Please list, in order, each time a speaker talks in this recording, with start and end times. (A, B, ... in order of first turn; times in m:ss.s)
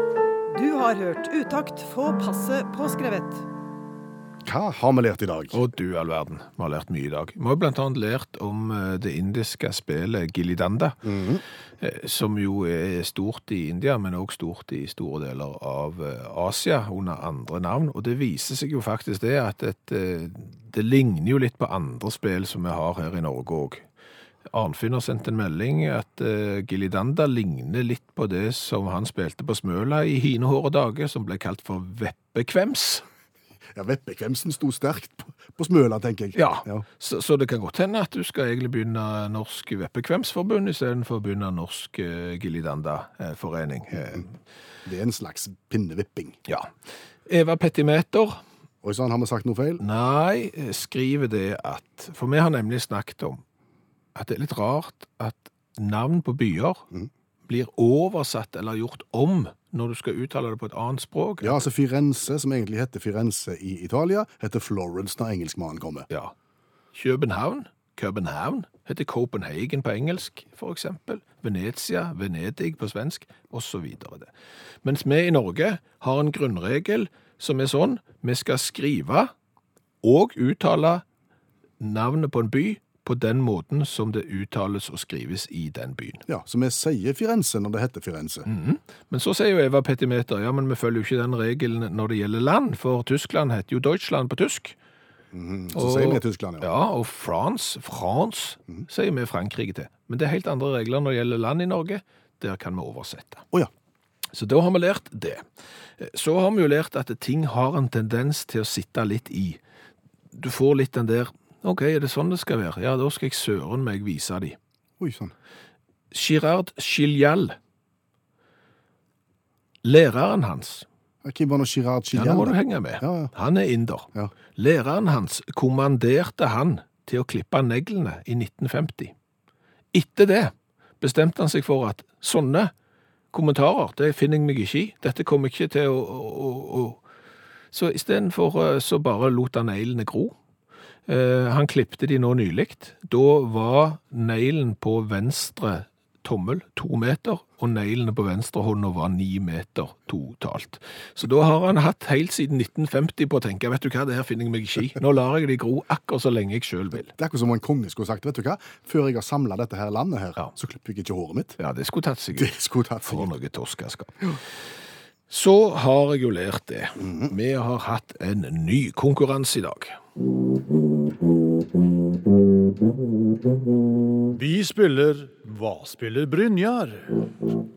0:00.5-0:03.4 A
0:04.4-0:05.6 B
0:05.5-0:11.0 C
0:11.0-0:11.4 B
0:11.8-0:23.8 C
0:24.5-0:33.0 C
0:33.7-0:36.8 B
0:36.3-0:44.3 C
0:44.8-0:46.4 B
0:47.2-0:48.4 C
0:48.8-0:49.8 B
0:49.8-0:53.4 C
0:54.1-0:56.8 C
0:57.5-1:01.6 C
1:01.4-1:06.1 B
1:06.1-1:06.3 C
1:06.9-1:14.3 C
1:14.8-1:19.3 C
1:20.0-1:21.0 C
1:21.8-1:26.2 C
1:26.3-1:28.5 B
1:28.4-1:34.8 C
1:35.3-1:36.7 B
1:35.7-1:43.4 C
1:44.3-1:45.4 C
1:46.0-1:49.6 C
1:50.3-1:54.6 C
1:55.0-1:55.3 B
1:56.1-1:57.6 C
1:59.8-2:00.8 C
2:01.2-2:03.3 B
2:02.1-2:09.1 C
2:09.9-2:12.7 C
2:13.3-2:17.0 C
2:17.7-2:20.3 C
2:21.1-2:37.1 C
2:37.2-2:41.6 B
2:41.6-2:44.4 C
2:42.4-2:43.3 B
2:45.3-2:50.0 C
2:47.0-2:47.3 B
2:54.3-2:57.3 D